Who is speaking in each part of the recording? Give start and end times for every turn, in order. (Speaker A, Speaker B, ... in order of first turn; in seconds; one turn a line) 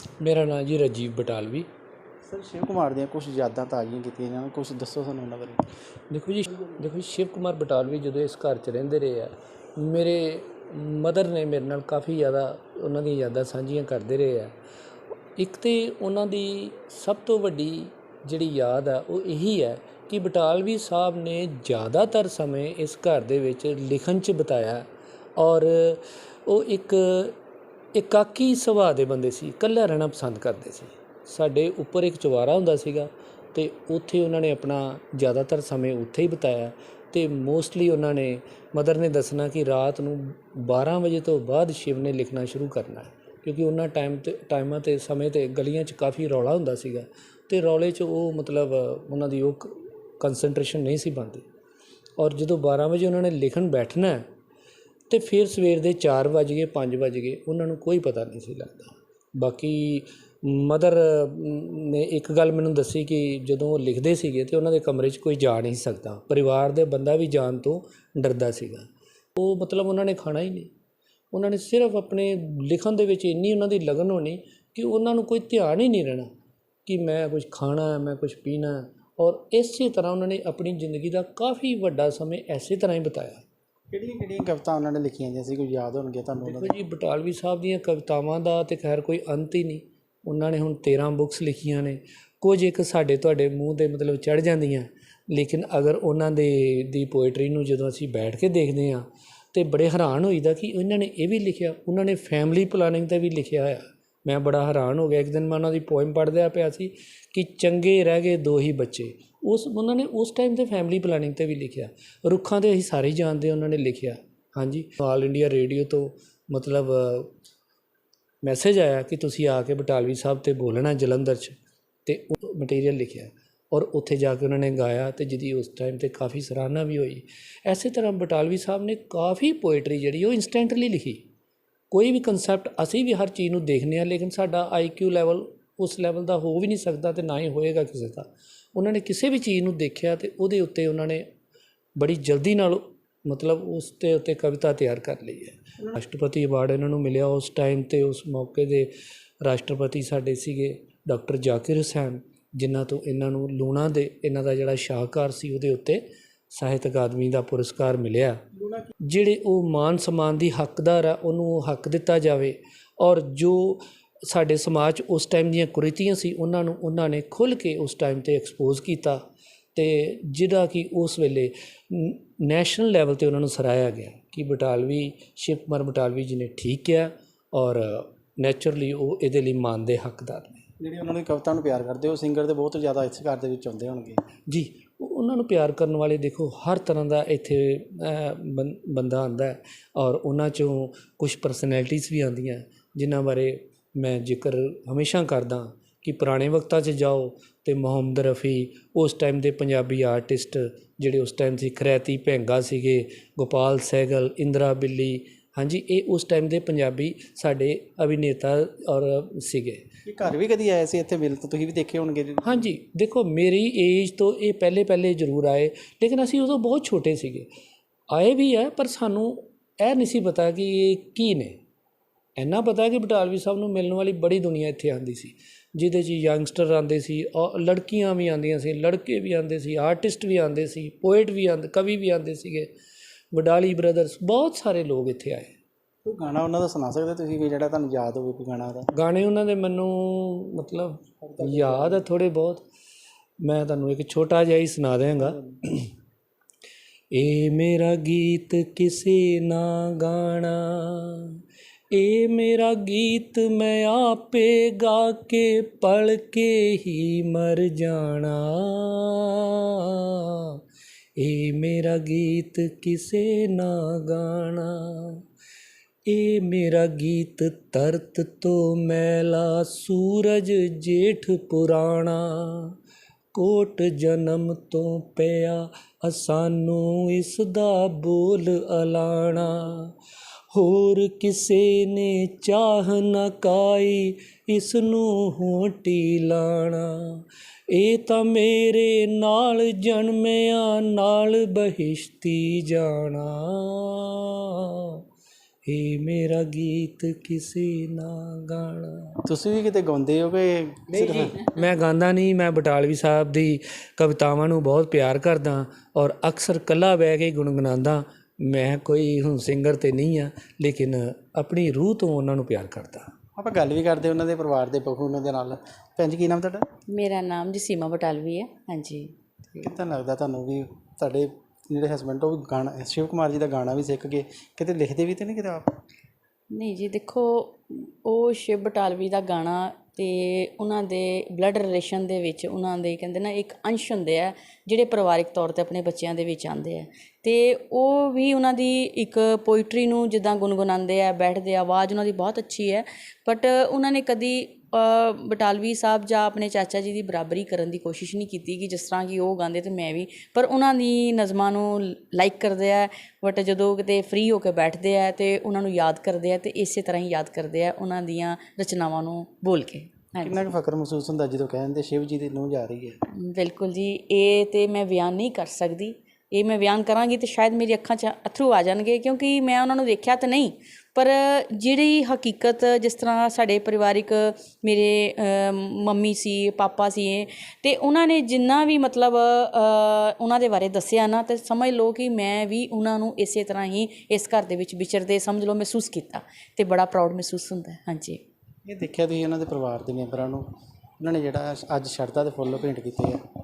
Speaker A: 0.2-1.7
Speaker B: 2.3-5.6
Speaker A: 6.1-14.5
Speaker A: 15.4-24.9
Speaker A: 25.4-27.4
Speaker A: 27.9-51.4
Speaker A: 52.2-54.3
Speaker A: 55.1-70.7
Speaker A: 71.3-76.3
Speaker A: 76.9-83.4
Speaker B: 83.9-86.7
Speaker A: 86.4-117.3
Speaker A: 118.4-131.2
Speaker A: 131.9-141.2
Speaker A: 142.0-148.9
Speaker A: 149.4-158.4
Speaker A: 159.1-169.2
Speaker A: 169.8-180.7
Speaker B: 180.8-184.2
Speaker A: 184.5-209.8
Speaker B: 210.1-212.6
Speaker A: 212.4-217.5
Speaker A: 218.1-221.6
Speaker A: 222.4-232.7
Speaker A: 233.3-235.5
Speaker B: 236.1-238.9
Speaker A: 238.9-242.6
Speaker B: 241.2-242.1
Speaker A: 243.4-245.9
Speaker A: 247.1-251.4
Speaker A: 251.9-260.6
Speaker A: 261.2-265.2
Speaker A: 266.1-272.8
Speaker A: 273.3-279.9
Speaker A: 280.5-295.0
Speaker A: 295.6-299.2
Speaker B: 299.2-301.4
Speaker A: 301.4-313.1
Speaker B: 313.4-316.7
Speaker C: 316.9-319.7
Speaker B: 319.6-325.7
Speaker C: 326.5-360.5
Speaker B: 360.2-363.0
Speaker C: 363.1-388.2
Speaker B: 388.7-390.5
Speaker B: 391.0-393.2